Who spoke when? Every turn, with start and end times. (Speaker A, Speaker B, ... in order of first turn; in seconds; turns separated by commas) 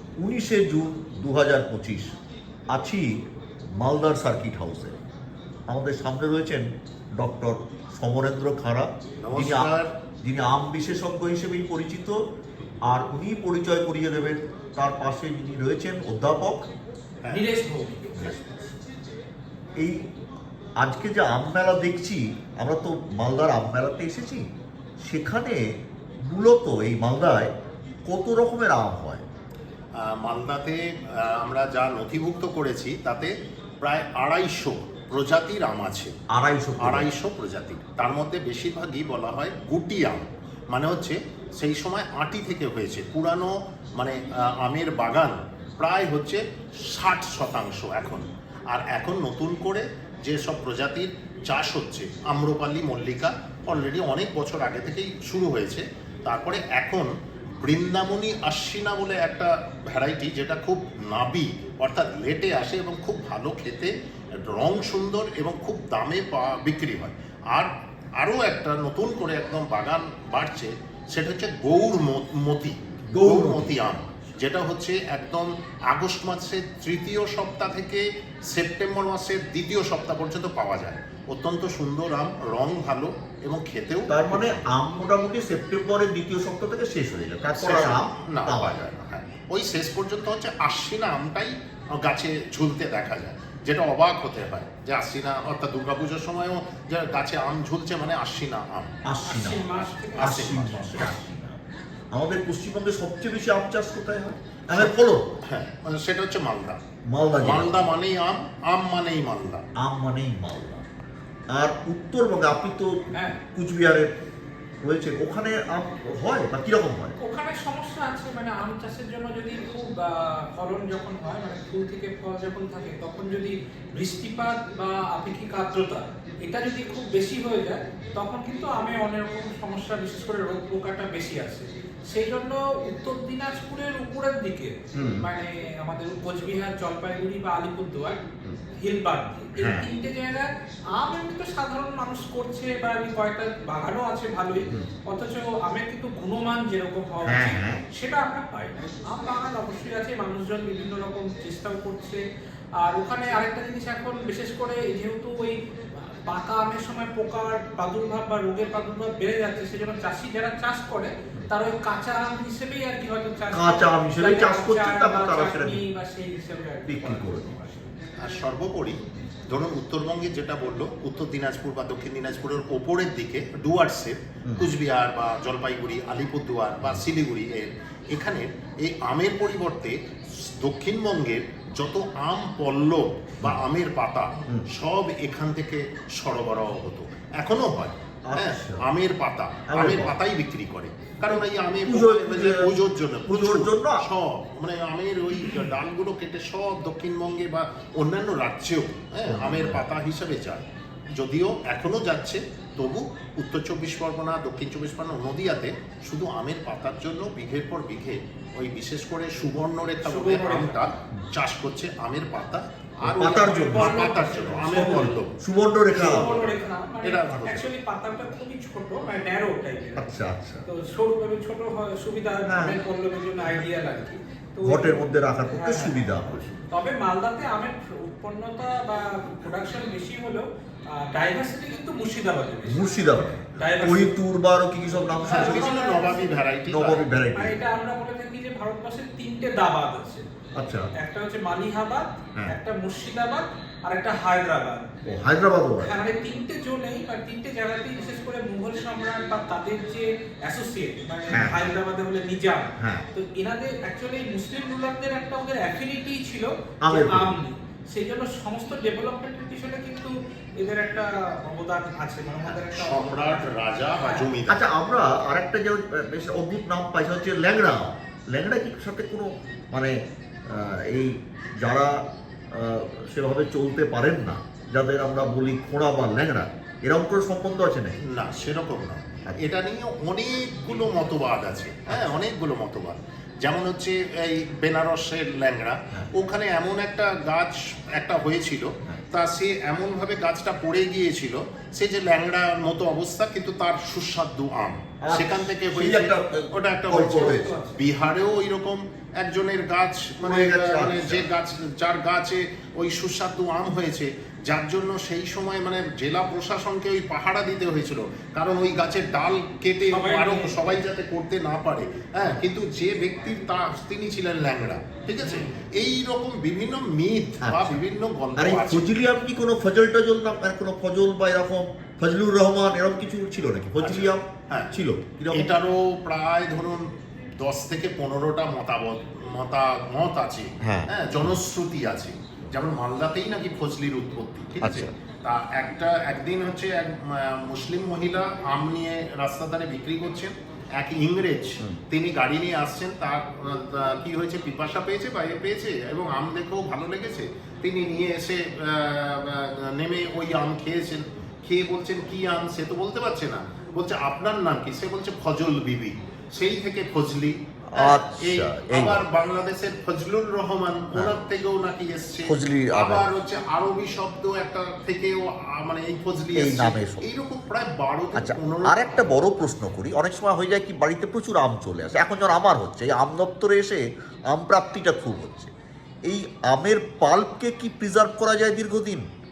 Speaker A: 0.2-2.1, Speaker A: 2.7-3.1, Speaker A: 3.7-5.0, Speaker A: 5.7-12.2, Speaker B: 9.2-9.9, Speaker A: 12.9-16.6, Speaker C: 17.3-18.3, Speaker A: 18.1-18.7, Speaker A: 20.8-24.4, Speaker A: 25.0-25.6, Speaker A: 26.2-27.5, Speaker A: 28.1-29.2, Speaker B: 30.0-36.1, Speaker A: 36.3-37.1, Speaker B: 36.8-84.6, Speaker A: 73.1-73.7, Speaker A: 84.1-88.9, Speaker B: 87.5-99.2, Speaker A: 99.0-101.2, Speaker C: 99.2-101.6, Speaker B: 99.7-101.2, Speaker A: 102.1-105.4, Speaker B: 105.5-106.8, Speaker A: 107.1-107.9, Speaker B: 107.4-109.6, Speaker A: 109.8-110.9, Speaker A: 111.5-114.1, Speaker A: 114.8-117.2, Speaker C: 117.2-152.2, Speaker A: 134.9-135.3, Speaker A: 139.6-139.9, Speaker A: 147.2-147.8, Speaker C: 152.8-167.9, Speaker A: 163.5-165.8, Speaker A: 166.9-167.5, Speaker B: 168.2-200.7, Speaker A: 174.5-174.7, Speaker A: 188.3-188.8, Speaker A: 189.7-190.2, Speaker A: 191.8-192.7, Speaker A: 193.3-194.0, Speaker A: 199.3-199.8, Speaker B: 201.2-215.3, Speaker C: 210.0-210.9, Speaker A: 213.0-214.1, Speaker C: 213.7-215.2, Speaker A: 214.7-216.4, Speaker C: 215.9-220.1, Speaker B: 216.0-217.6, Speaker A: 220.0-220.7, Speaker C: 220.7-234.2, Speaker A: 222.5-222.8, Speaker A: 224.6-226.5, Speaker A: 232.7-235.7, Speaker C: 235.0-236.3, Speaker B: 235.3-237.1, Speaker A: 236.7-237.6, Speaker C: 237.3-240.2, Speaker A: 240.6-240.9, Speaker C: 240.9-244.9, Speaker A: 245.1-246.0, Speaker C: 245.8-264.3, Speaker A: 251.3-251.7, Speaker A: 252.8-253.1, Speaker A: 256.8-257.3, Speaker B: 262.8-264.6, Speaker A: 264.5-278.0, Speaker B: 278.1-318.9, Speaker A: 281.9-282.2, Speaker A: 295.0-297.5, Speaker C: 297.0-297.8, Speaker A: 300.2-301.2, Speaker C: 309.9-310.8, Speaker C: 315.2-315.6, Speaker A: 317.4-317.8, Speaker A: 318.4-325.5, Speaker B: 323.8-324.7, Speaker B: 325.3-326.9, Speaker B: 327.4-369.2, Speaker A: 330.6-331.3, Speaker A: 334.6-334.9, Speaker A: 357.7-359.1, Speaker A: 362.3-363.1, Speaker A: 366.4-367.1, Speaker A: 368.1-375.5, Speaker A: 376.1-379.1